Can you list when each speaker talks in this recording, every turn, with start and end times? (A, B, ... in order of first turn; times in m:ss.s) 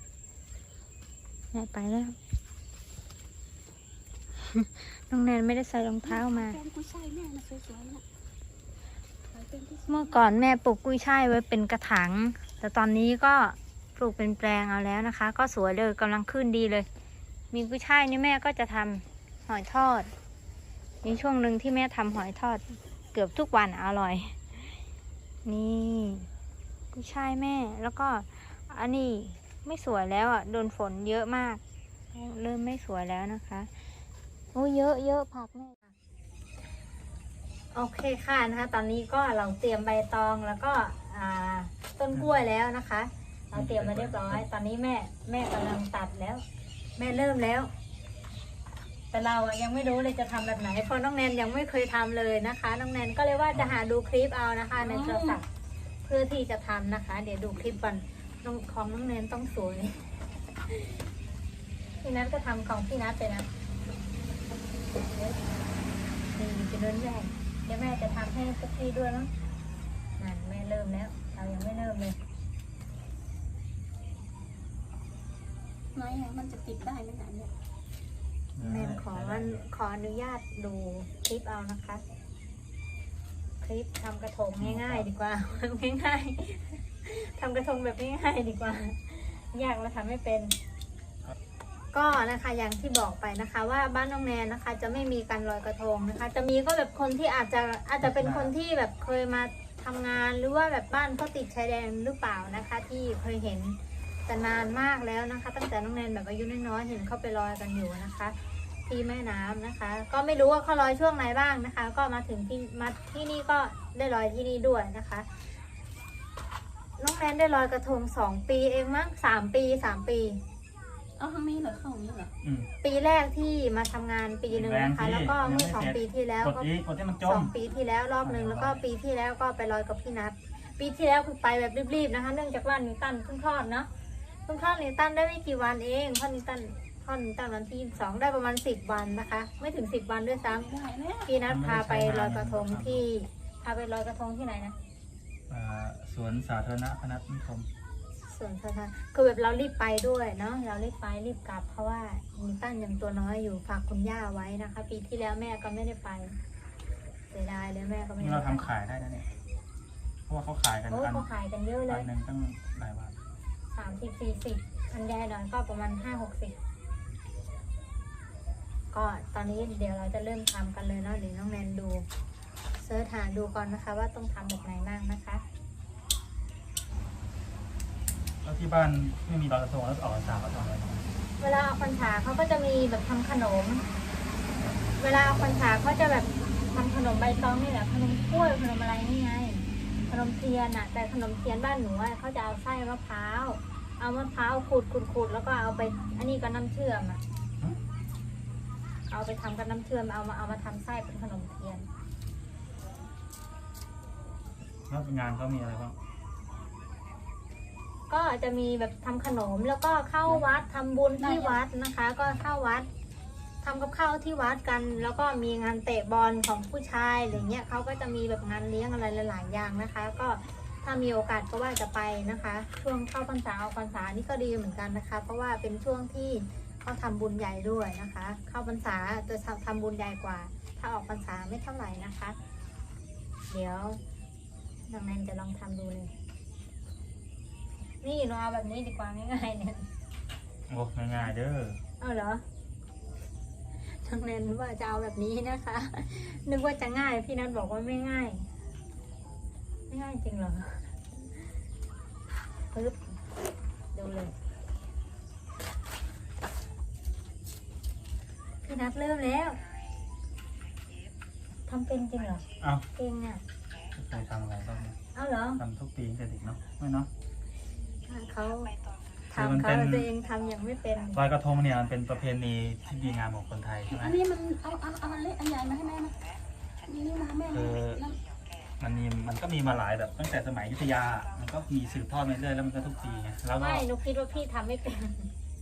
0:01.5-0:02.2 A
0:04.4-0:06.6 A
0:06.0-0:08.0 B
0:09.3-0:10.2 B
0:09.9-0:16.9 A
0:17.5-0:20.1 A
0:21.0-0:24.4 A
0:25.4-0:26.3 A
0:26.9-0:31.6 A
0:32.1-0:33.7 A
0:34.5-0:35.9 A
0:37.7-0:46.4 A
0:42.1-0:42.4 C
0:43.5-0:44.5 C
0:47.0-0:47.7 A
0:49.1-0:55.4 A
0:54.8-0:55.4 B
0:56.0-1:01.0 A
1:02.0-1:03.5 A
1:06.3-1:09.3 A
1:10.2-1:12.2 A
1:15.9-1:17.5 B
1:18.5-1:19.6 C
1:18.6-1:22.0 A
1:23.6-1:30.6 A
1:24.6-1:25.1 C
1:31.9-1:55.5 A
1:38.0-1:38.5 C
1:57.0-2:00.4 A
2:01.2-2:02.3 B
2:02.4-2:02.7 C
2:02.8-2:06.7 A
2:04.5-2:07.5 C
2:07.2-2:13.9 A
2:08.2-2:08.8 C
2:14.4-2:20.7 A
2:20.5-2:21.3 B
2:21.2-2:24.8 A
2:21.4-2:23.0 C
2:25.5-2:27.7 C
2:28.2-2:36.4 A
2:37.3-2:38.7 A
2:38.2-2:39.3 C
2:40.3-2:41.3 C
2:40.9-2:42.1 A
2:41.9-2:43.1 C
2:43.7-2:46.6 A
2:48.9-2:52.1 A
2:52.8-2:55.4 A
2:58.4-3:01.0 C
3:01.4-3:03.9 A
3:05.0-3:17.2 A
3:19.1-3:21.9 A
3:24.9-3:25.9 C
3:28.1-3:32.9 A
3:31.2-3:31.6 B
3:33.6-3:52.4 A
3:53.5-3:54.0 A
3:54.9-3:56.1 A
3:58.0-3:59.9 A
4:00.7-4:01.8 C
4:02.0-4:02.4 A
4:03.8-4:08.5 A
4:09.9-4:10.9 A
4:12.7-4:13.0 A
4:13.9-4:14.3 A
4:18.6-4:19.6 A
4:21.7-4:23.4 A
4:22.6-4:22.8 C
4:24.0-4:25.0 C
4:25.1-4:25.6 A
4:25.6-4:27.1 C
4:28.0-4:28.7 A
4:29.3-4:31.2 A
4:29.3-4:30.1 C
4:31.1-4:34.2 C
4:33.9-4:36.2 B
4:36.8-4:38.2 B
4:37.5-4:38.0 C
4:38.8-4:43.9 C
4:43.6-4:45.3 A